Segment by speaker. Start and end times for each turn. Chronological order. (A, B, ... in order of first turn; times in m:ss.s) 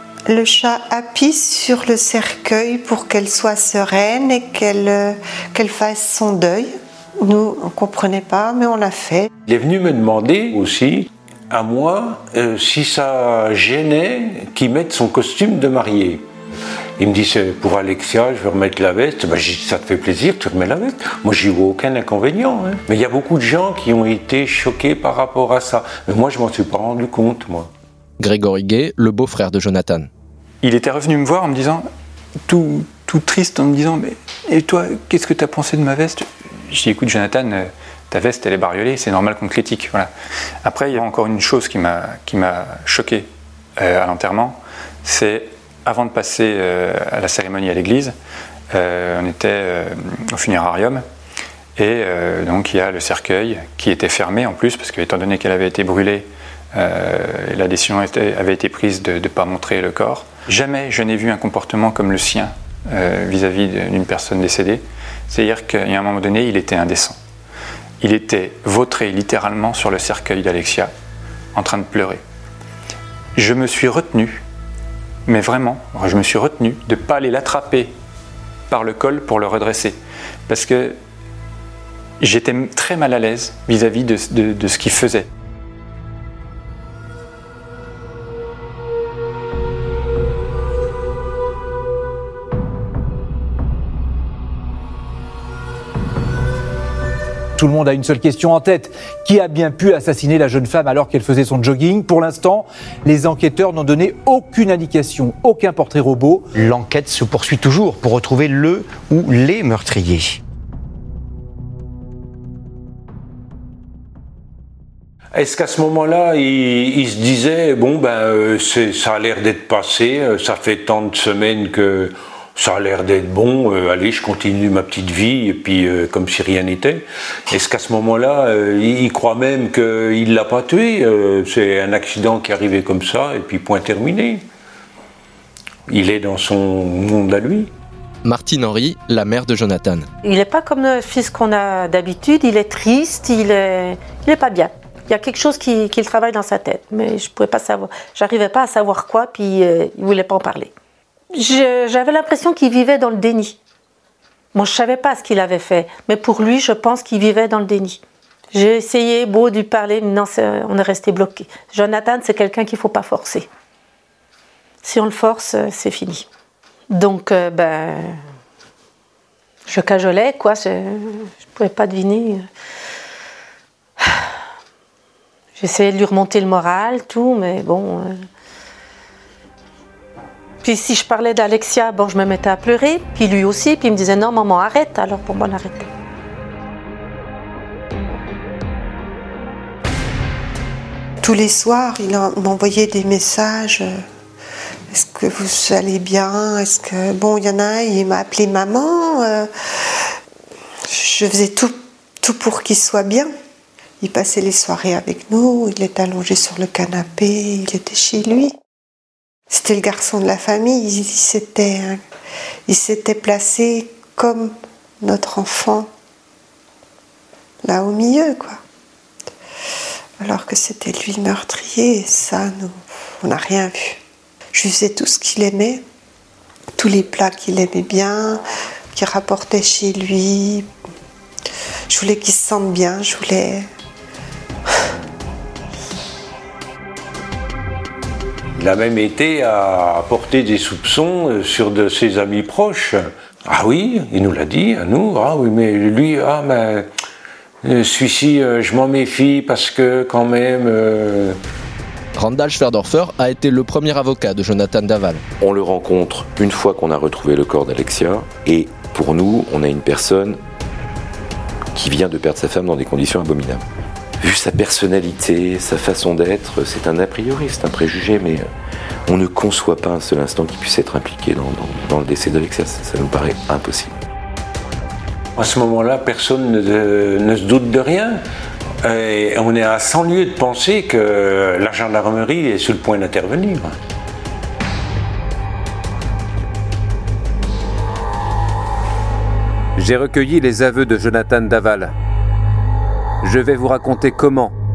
0:00.3-0:09.3 A
0:09.4-0:16.2 B
0:17.0-0:27.7 B
0:28.2-0:30.1 C
0:30.6-0:31.9 D
0:32.5-0:40.1 D
0:40.6-0:48.1 D
0:48.7-0:51.0 D
0:51.8-1:07.2 D
1:08.0-1:10.9 D
1:11.5-1:12.2 D
1:13.3-1:14.4 D
1:15.2-1:17.9 D
1:18.7-1:21.0 D
1:22.2-1:25.3 D
1:37.6-1:46.5 E
1:46.6-1:50.3 F
1:55.3-2:14.4 B
2:15.9-2:17.7 B
2:18.2-2:20.1 C
2:20.2-2:30.7 G
2:31.3-2:33.6 G
2:34.5-2:38.0 G
2:38.5-2:43.5 G
2:44.8-2:46.2 G
2:46.9-2:48.2 G
2:49.7-2:52.5 G
2:55.6-2:58.2 G
3:00.6-3:05.9 G
3:11.2-3:14.0 A
3:14.9-3:20.1 A
3:20.9-3:23.3 A
3:24.0-3:28.5 A
3:29.5-3:32.0 A
3:32.7-3:35.9 A
3:37.6-3:38.6 A
3:40.2-3:44.0 A
3:44.5-3:45.8 A
3:46.8-3:50.7 A
3:51.9-3:53.7 A
3:58.6-4:06.9 B
4:07.6-4:11.4 B
4:12.2-4:15.2 C
4:15.4-4:20.4 H
4:21.7-4:23.6 H
4:24.2-4:28.5 H
4:29.1-4:34.0 H
4:35.4-4:38.2 B
4:38.8-4:43.7 B
4:49.8-4:51.9 I
4:53.2-4:54.5 I